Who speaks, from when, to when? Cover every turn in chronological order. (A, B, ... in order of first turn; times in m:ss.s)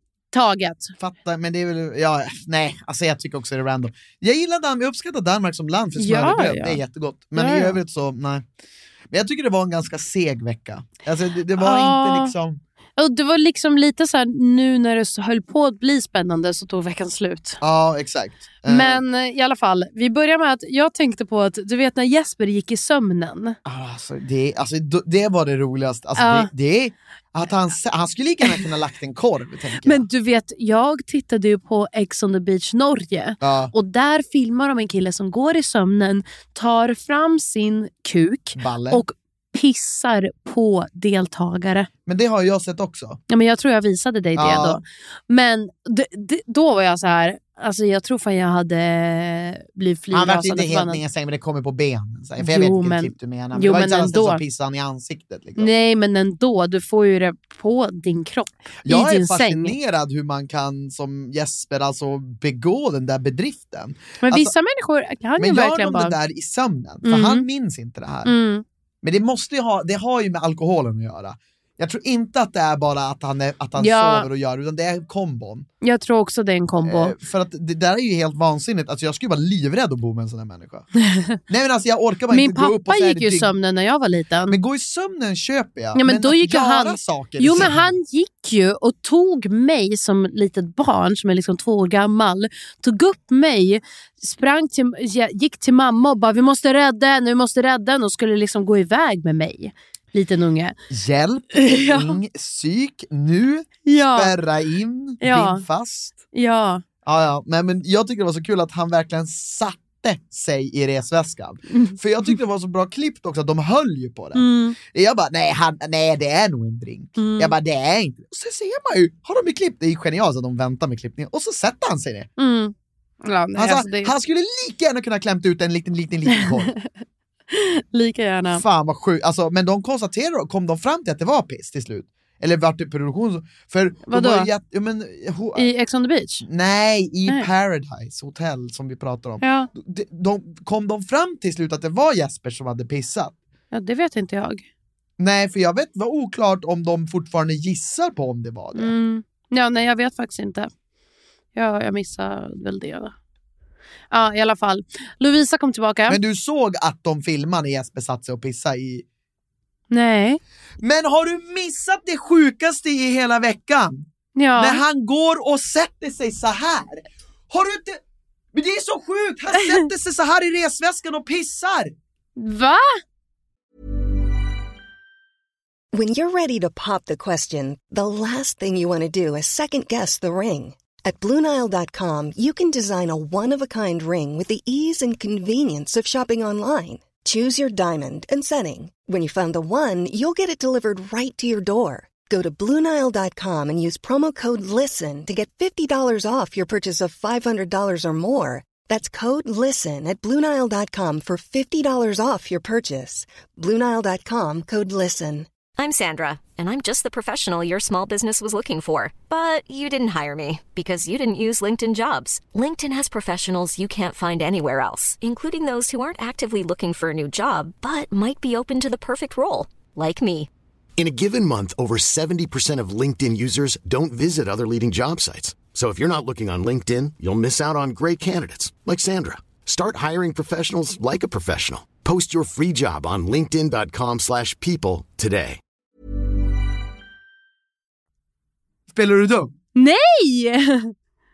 0:00.3-0:00.9 A
0:01.0-0:08.4 B
0:06.0-0:06.8 A
0:07.3-0:07.8 A
0:09.1-0:12.6 B
0:11.6-0:12.3 A
0:13.0-0:17.6 A
0:17.6-0:19.0 B
0:18.6-0:23.6 A
0:23.6-0:30.0 B
0:26.2-0:26.5 A
0:29.8-0:41.9 A
0:33.4-0:33.7 B
0:38.6-0:39.0 B
0:42.1-0:43.2 B
0:43.3-0:51.0 A
0:44.4-0:44.8 B
0:50.1-0:55.7 B
0:52.4-0:54.4 A
0:55.6-0:59.8 A
0:58.8-1:04.5 B
1:04.2-1:06.2 A
1:05.4-1:08.3 B
1:07.0-1:07.5 A
1:08.2-1:08.6 A
1:09.0-1:15.7 B
1:13.8-1:14.3 A
1:15.8-1:17.1 A
1:16.8-1:20.9 B
1:21.5-1:23.5 B
1:22.3-1:24.6 A
1:24.5-1:28.0 B
1:25.9-1:40.7 A
1:40.9-1:46.2 B
1:41.5-1:42.2 A
1:43.8-1:44.3 A
1:45.2-1:45.6 A
1:46.3-1:46.8 A
1:47.0-2:02.3 B
1:51.7-1:52.3 A
1:54.3-1:54.8 A
1:57.2-1:57.5 A
2:02.4-2:04.1 A
2:03.6-2:06.7 B
2:06.3-2:06.8 A
2:07.5-2:08.6 A
2:08.5-2:15.7 B
2:14.1-2:14.5 A
2:15.6-2:16.4 A
2:16.4-2:23.4 B
2:19.4-2:19.7 A
2:23.7-2:24.6 A
2:25.2-2:28.9 B
2:28.7-2:30.7 A
2:31.5-2:33.1 A
2:34.1-2:36.2 A
2:36.1-2:39.0 B
2:39.9-2:40.4 A
2:40.8-2:44.0 B
2:44.4-2:44.8 A
2:44.6-2:48.0 B
2:48.5-2:51.9 B
2:52.4-2:53.0 A
2:55.9-3:25.5 C
3:25.8-3:40.5 D
3:41.0-3:55.6 E
3:58.9-3:59.5 B
3:59.7-4:00.9 A